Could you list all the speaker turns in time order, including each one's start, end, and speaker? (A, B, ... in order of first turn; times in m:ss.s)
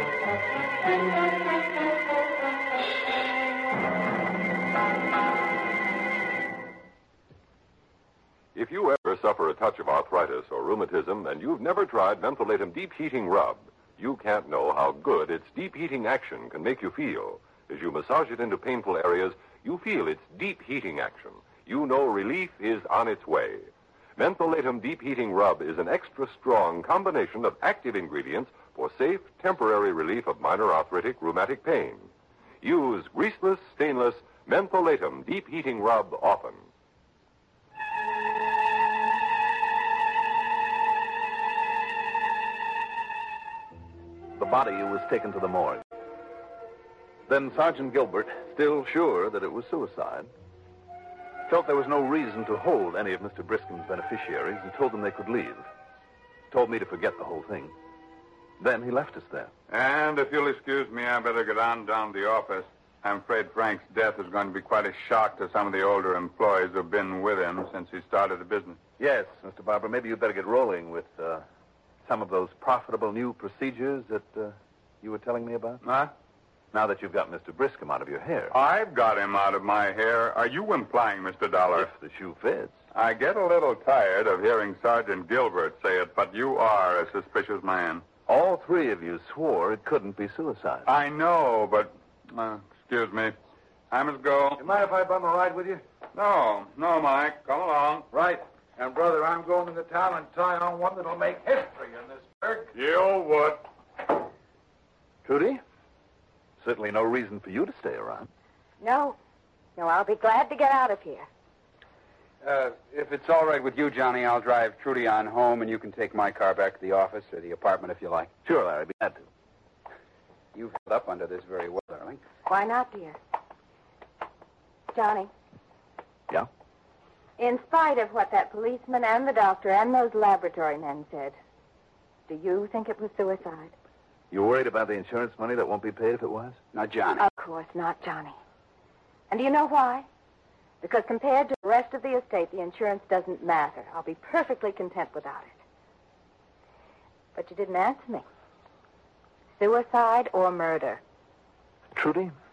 0:08.6-0:36.7 A
0:44.4-0:45.8 B
0:47.3-0:50.3 B
0:51.5-0:55.7 B
0:56.5-0:57.8 B
0:58.6-0:59.5 B
0:59.7-1:08.8 C
1:09.0-1:11.4 B
1:12.0-1:15.8 B
1:15.8-1:16.1 C
1:16.7-1:18.6 B
1:18.5-1:21.9 C
1:21.7-1:22.8 B
1:22.9-1:28.0 C
1:28.3-1:30.9 B
1:30.9-1:33.4 C
1:33.9-1:34.6 C
1:34.6-1:35.8 D
1:36.1-1:38.1 C
1:38.1-1:42.7 D
1:42.7-1:43.7 C
1:45.2-1:45.6 B
1:46.6-1:48.3 B
1:48.8-1:49.2 E
1:49.8-1:51.3 E
1:52.4-1:58.3 F
1:58.4-1:59.3 B
2:00.5-2:02.2 F
2:02.5-2:03.2 E
2:04.9-2:05.3 E
2:07.4-2:11.4 E
2:12.3-2:13.7 E
2:14.3-2:16.6 B
2:16.7-2:17.2 F
2:17.2-2:18.4 E
2:19.3-2:20.1 E
2:20.8-2:25.6 E
2:27.4-2:28.2 E
2:29.6-2:31.0 E
2:31.9-2:32.3 B